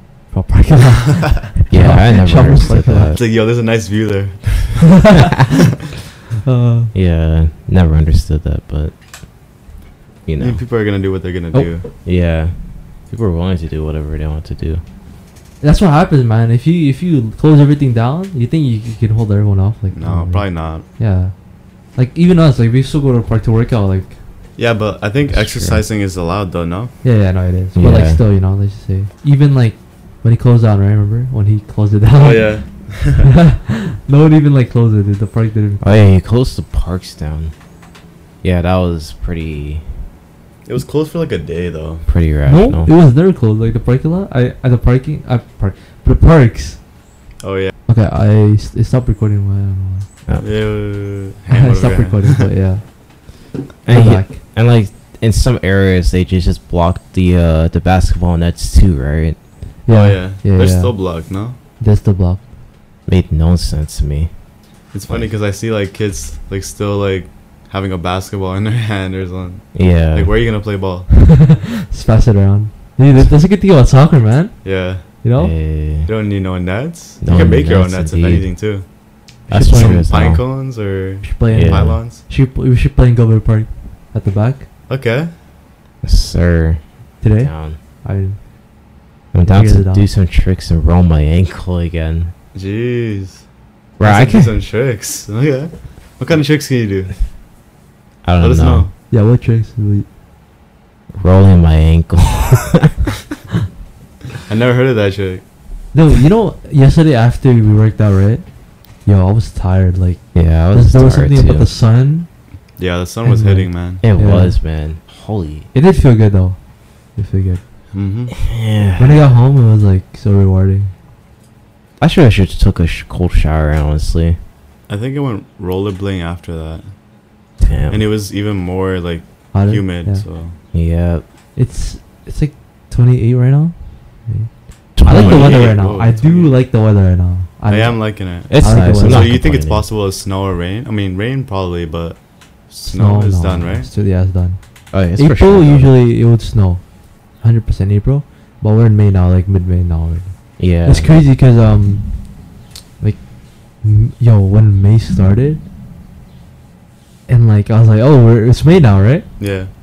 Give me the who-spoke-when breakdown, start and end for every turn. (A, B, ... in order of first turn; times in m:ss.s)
0:00.3-0:03.2 A
0:01.7-0:03.2 B
0:03.1-0:05.0 C
0:05.0-0:05.3 A
0:06.4-0:06.9 A
0:06.9-0:08.9 B
0:10.2-0:10.6 B
0:10.4-0:11.8 C
0:12.0-0:14.8 B
0:15.6-0:21.4 A
0:19.9-0:20.8 C
0:21.9-0:24.2 A
0:24.6-0:27.0 C
0:25.3-0:25.8 B
0:27.0-0:32.6 A
0:27.7-0:28.2 B
0:32.2-0:33.3 C
0:33.2-0:36.0 A
0:35.8-0:37.5 B
0:38.4-0:39.9 B
0:40.6-0:42.0 C
0:42.0-0:42.9 B
0:42.5-0:46.8 A
0:47.4-0:47.7 C
0:47.9-0:50.1 A
0:50.4-0:52.4 C
0:51.5-0:52.9 A
0:53.8-0:59.4 B
0:53.9-0:54.4 A
0:59.8-1:00.9 A
0:59.9-1:01.6 C
1:01.8-1:02.4 A
1:03.1-1:04.3 B
1:04.9-1:11.1 C
1:09.7-1:10.3 B
1:11.1-1:15.5 A
1:14.6-1:15.1 C
1:15.4-1:16.1 B
1:16.0-1:18.9 C
1:17.2-1:18.5 B
1:19.4-1:22.2 C
1:19.5-1:20.1 A
1:19.5-1:20.4 B
1:21.2-1:24.7 A
1:21.5-1:22.0 B
1:24.9-1:25.3 C
1:26.0-1:26.8 B
1:27.2-1:28.4 A
1:27.4-1:27.8 B
1:29.3-1:32.3 B
1:29.4-1:30.1 A
1:32.5-1:33.4 C
1:34.0-1:34.6 B
1:34.0-1:37.1 C
1:38.2-1:38.9 B
1:38.4-1:38.9 C
1:39.1-1:40.0 A
1:41.2-1:42.9 B
1:44.4-1:45.4 C
1:45.9-1:48.5 A
1:49.0-1:52.3 A
1:50.3-1:51.7 B
1:52.8-1:54.0 C
1:53.2-1:54.6 A
1:54.0-1:55.7 B
1:55.7-1:56.6 A
1:57.1-1:57.6 A
1:57.9-1:58.4 C
1:58.4-1:59.3 B
1:59.0-2:00.9 A
2:02.0-2:04.4 B
2:04.9-2:06.9 C
2:07.6-2:08.0 B
2:07.9-2:10.6 C
2:09.5-2:10.2 A
2:10.7-2:11.2 B
2:11.6-2:19.4 A
2:15.0-2:15.7 B
2:15.1-2:16.5 C
2:17.7-2:23.9 C
2:18.5-2:19.9 B
2:22.9-2:32.3 A
2:24.9-2:25.9 B
2:30.6-2:31.1 B
2:33.0-2:35.6 A
2:37.3-2:39.3 A
2:39.4-2:39.7 C